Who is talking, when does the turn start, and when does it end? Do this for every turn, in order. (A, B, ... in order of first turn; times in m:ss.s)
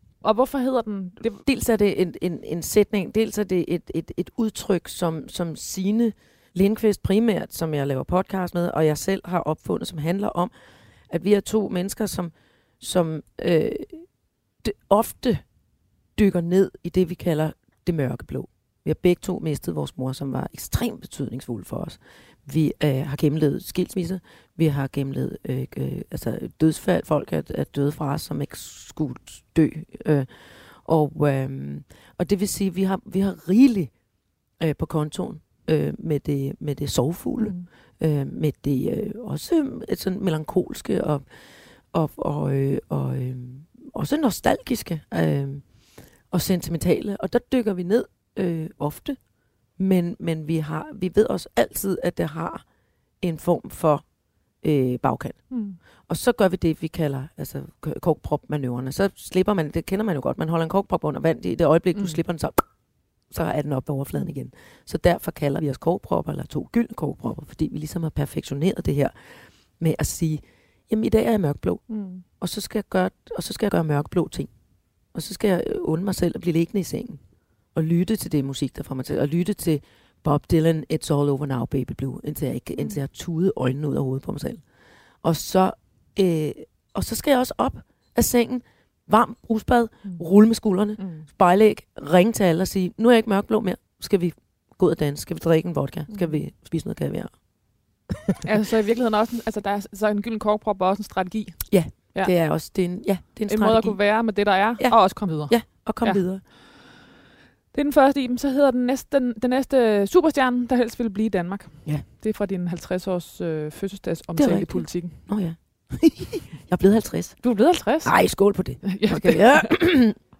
0:00.2-0:01.5 A
0:01.4-0:10.5 B
0:11.1-0:14.1 B
0:14.6-0:15.4 B
0:16.2-0:34.0 B
0:34.6-0:45.8 B
0:37.4-0:37.7 A
0:46.3-0:49.2 B
0:49.8-0:52.6 B
0:53.2-0:54.1 B
0:54.6-1:02.7 B
0:55.5-0:55.8 A
1:03.3-1:14.5 B
1:11.9-1:12.2 A
1:15.1-1:17.2 B
1:17.7-1:24.7 B
1:25.2-1:38.4 B
1:31.0-1:31.3 A
1:36.1-1:36.4 A
1:38.4-1:42.3 A
1:41.7-1:46.4 B
1:43.5-1:46.9 A
1:47.7-1:55.2 A
1:54.4-2:00.2 B
1:57.4-1:59.9 A